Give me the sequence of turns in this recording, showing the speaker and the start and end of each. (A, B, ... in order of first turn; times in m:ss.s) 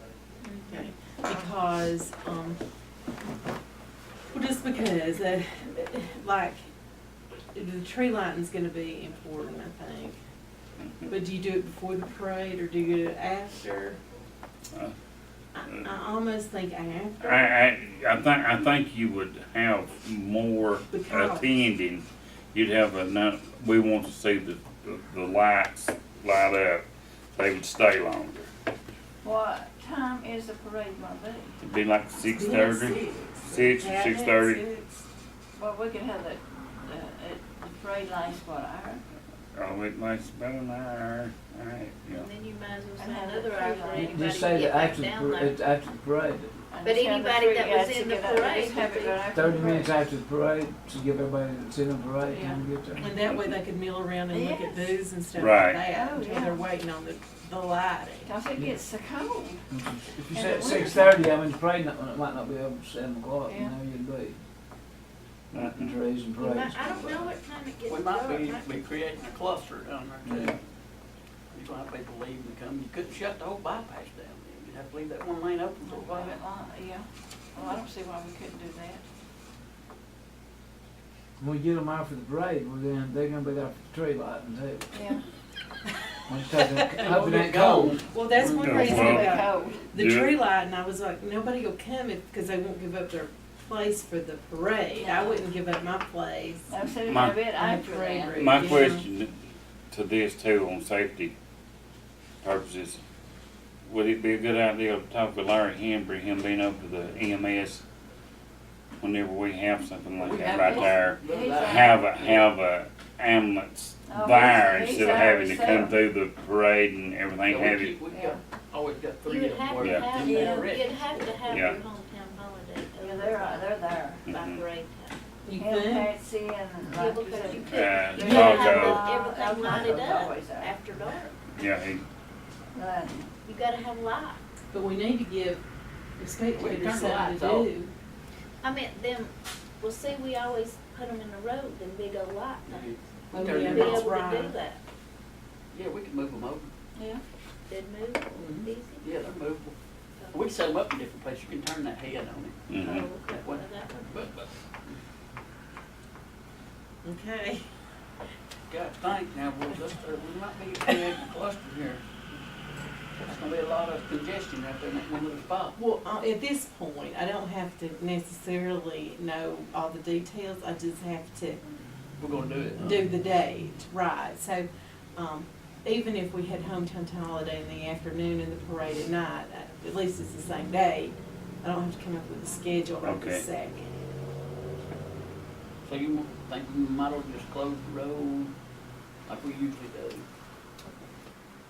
0:00.4-0:00.8 A
0:00.7-0:02.6 B
0:04.3-0:06.6 B
0:07.5-0:10.2 B
0:10.8-0:11.1 C
0:11.1-0:14.0 B
0:15.5-0:17.6 B
0:15.6-0:15.9 C
0:17.2-0:26.8 C
0:20.9-0:21.5 B
0:27.4-0:28.5 C
0:29.2-0:31.6 D
0:31.6-0:34.6 C
0:32.2-0:35.1 B
0:35.6-0:39.0 D
0:39.5-0:42.3 C
0:42.1-0:45.6 A
0:43.0-0:44.3 D
0:43.9-0:46.5 E
0:46.7-0:49.9 D
0:46.8-0:49.3 A
0:49.3-0:53.1 E
0:52.3-0:52.6 D
0:53.0-0:58.3 B
0:53.0-0:53.6 C
0:54.3-0:55.0 D
0:55.3-0:55.8 C
0:55.8-0:56.6 D
0:58.2-0:59.6 D
0:59.7-1:04.4 E
1:00.3-1:01.3 D
1:03.5-1:03.7 D
1:05.5-1:06.0 C
1:05.5-1:07.4 E
1:06.4-1:08.7 A
1:07.9-1:10.6 F
1:11.5-1:16.3 F
1:15.8-1:19.0 D
1:21.4-1:24.9 E
1:24.9-1:25.2 D
1:26.3-1:28.0 E
1:26.6-1:27.0 B
1:27.0-1:28.9 F
1:28.0-1:36.7 B
1:28.6-1:30.4 C
1:28.7-1:29.8 D
1:35.0-1:35.4 D
1:36.7-1:38.9 D
1:37.1-1:37.5 C
1:37.5-1:39.0 B
1:38.0-1:38.5 F
1:38.3-1:39.4 C
1:39.9-1:41.3 C
1:42.4-1:43.0 C
1:43.8-1:47.8 C
1:49.0-1:58.0 C
1:50.1-1:52.5 F
1:50.5-1:52.0 D
1:54.1-1:56.0 D
1:57.5-2:01.6 F
1:58.1-1:58.4 D
1:59.2-2:03.8 A
1:59.8-2:00.2 C
2:00.2-2:00.7 D
2:01.5-2:01.8 C
2:03.0-2:04.2 D
2:04.2-2:04.7 C
2:04.3-2:05.2 A
2:05.4-2:06.1 B
2:05.5-2:10.7 D
2:06.9-2:11.4 A
2:07.6-2:09.1 C
2:08.2-2:09.1 B
2:09.7-2:10.0 B
2:11.5-2:12.0 C
2:12.7-2:13.3 D
2:13.4-2:14.4 A
2:14.7-2:15.6 B
2:16.2-2:17.9 B
2:16.5-2:17.7 F
2:18.6-2:24.8 A
2:22.6-2:24.1 F
2:23.3-2:24.6 B
2:25.7-2:26.7 F
2:26.9-2:27.2 D
2:27.7-2:29.1 A
2:28.3-2:29.7 F
2:30.2-2:30.5 A
2:30.3-2:32.7 F
2:32.7-2:33.1 C
2:32.8-2:34.3 A
2:33.2-2:34.5 F
2:37.0-2:37.6 B
2:38.7-2:42.0 F
2:43.2-2:45.8 F
2:45.8-2:51.6 B
2:52.2-2:52.9 F
2:52.8-3:03.8 B
3:03.0-3:03.4 C
3:05.8-3:08.5 F
3:09.2-3:10.2 F